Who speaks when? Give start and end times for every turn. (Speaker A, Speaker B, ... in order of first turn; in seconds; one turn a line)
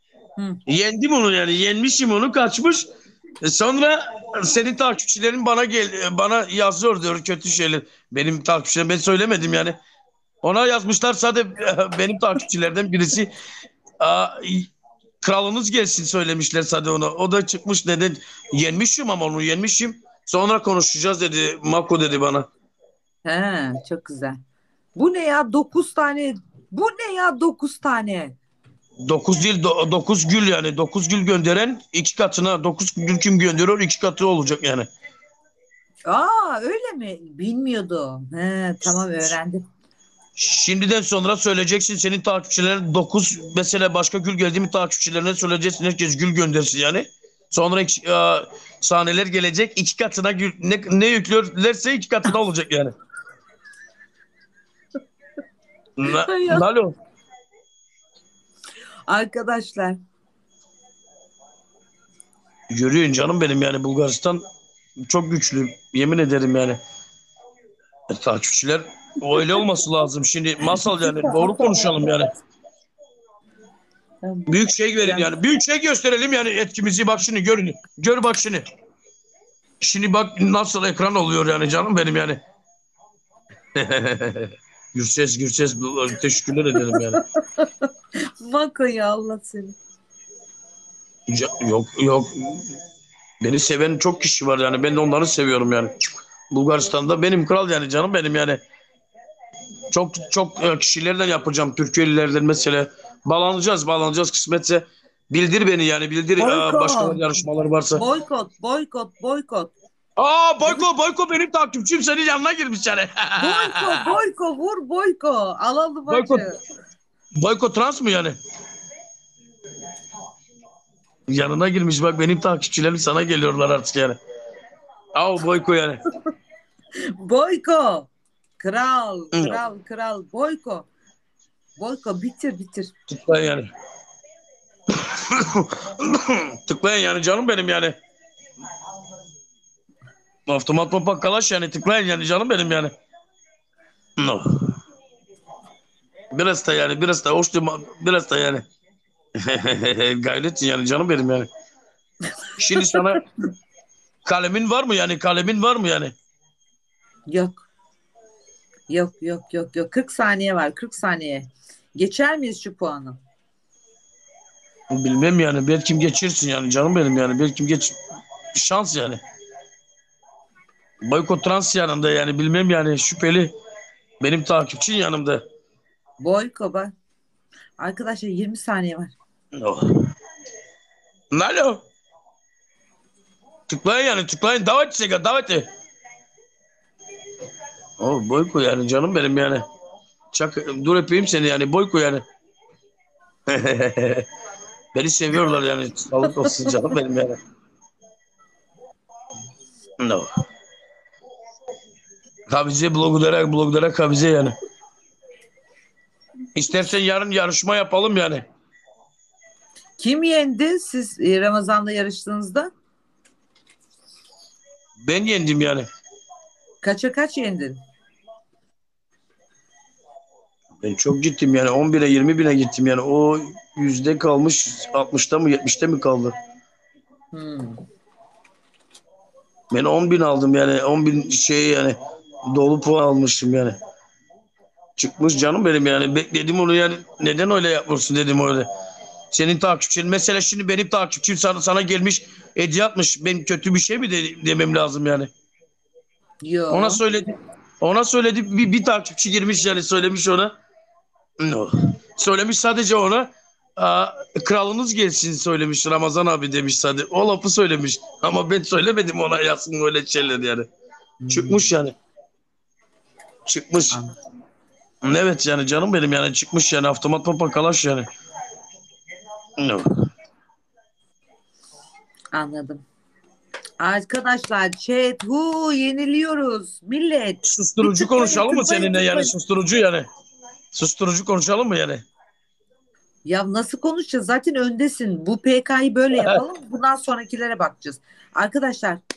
Speaker A: 0.7-2.9
Speaker A: 3.4-9.7
Speaker A: 10.4-13.3
Speaker A: 14.0-14.7
Speaker A: 15.2-22.5
Speaker B: 23.2-24.4
Speaker B: 24.9-28.3
Speaker A: 29.0-34.9
Speaker B: 36.1-39.6
Speaker A: 40.4-52.9
Speaker A: 56.0-56.9
Speaker B: 56.2-56.6
Speaker B: 59.1-60.0
Speaker A: 62.7-64.4
Speaker A: 65.1-66.8
Speaker A: 68.1-72.3
Speaker B: 69.3-69.6
Speaker B: 70.8-72.2
Speaker B: 74.2-75.3
Speaker A: 74.5-78.6
Speaker A: 79.8-82.4
Speaker A: 83.7-87.2
Speaker B: 86.9-87.7
Speaker B: 88.4-89.8
Speaker A: 91.3-92.7
Speaker A: 93.4-98.6
Speaker A: 99.9-108.0
Speaker B: 106.4-107.2
Speaker B: 108.0-109.7
Speaker A: 110.2-114.1
Speaker B: 113.4-116.5
Speaker A: 116.1-116.4
Speaker A: 117.4-118.3
Speaker A: 121.3-124.2
Speaker A: 125.1-126.0
Speaker B: 127.2-130.9
Speaker A: 129.3-129.6
Speaker B: 131.8-132.9
Speaker A: 133.1-133.7
Speaker A: 134.9-137.9
Speaker A: 140.5-142.9
Speaker A: 144.2-144.4
Speaker A: 146.3-148.6
Speaker A: 149.4-151.5
Speaker A: 152.6-153.2
Speaker B: 152.8-153.0
Speaker A: 154.2-156.1
Speaker B: 157.3-157.7
Speaker B: 158.9-163.2
Speaker A: 164.9-167.9
Speaker A: 168.5-169.2
Speaker A: 171.0-173.5
Speaker A: 174.2-175.4
Speaker B: 176.2-176.9
Speaker B: 177.8-179.1
Speaker A: 179.6-179.8
Speaker A: 181.3-181.8
Speaker A: 183.7-185.7
Speaker A: 188.0-189.6
Speaker A: 190.3-192.2
Speaker A: 193.5-194.2
Speaker A: 194.9-197.4
Speaker B: 196.4-196.7
Speaker A: 200.0-200.3
Speaker A: 202.5-204.5
Speaker A: 206.5-208.4
Speaker B: 210.0-212.7
Speaker A: 215.0-215.8
Speaker B: 216.8-217.8
Speaker A: 220.8-226.3
Speaker B: 227.3-227.8
Speaker A: 229.7-232.0
Speaker A: 232.5-233.8
Speaker A: 235.0-238.7
Speaker A: 239.3-245.3
Speaker B: 246.4-247.0
Speaker A: 246.7-250.5
Speaker A: 251.4-260.7
Speaker B: 261.2-261.7
Speaker A: 261.3-261.9
Speaker A: 263.5-264.0
Speaker A: 265.0-268.1
Speaker A: 269.6-269.8
Speaker B: 272.3-272.8
Speaker B: 273.8-279.3
Speaker A: 277.4-280.1
Speaker A: 280.7-282.0
Speaker B: 283.2-289.0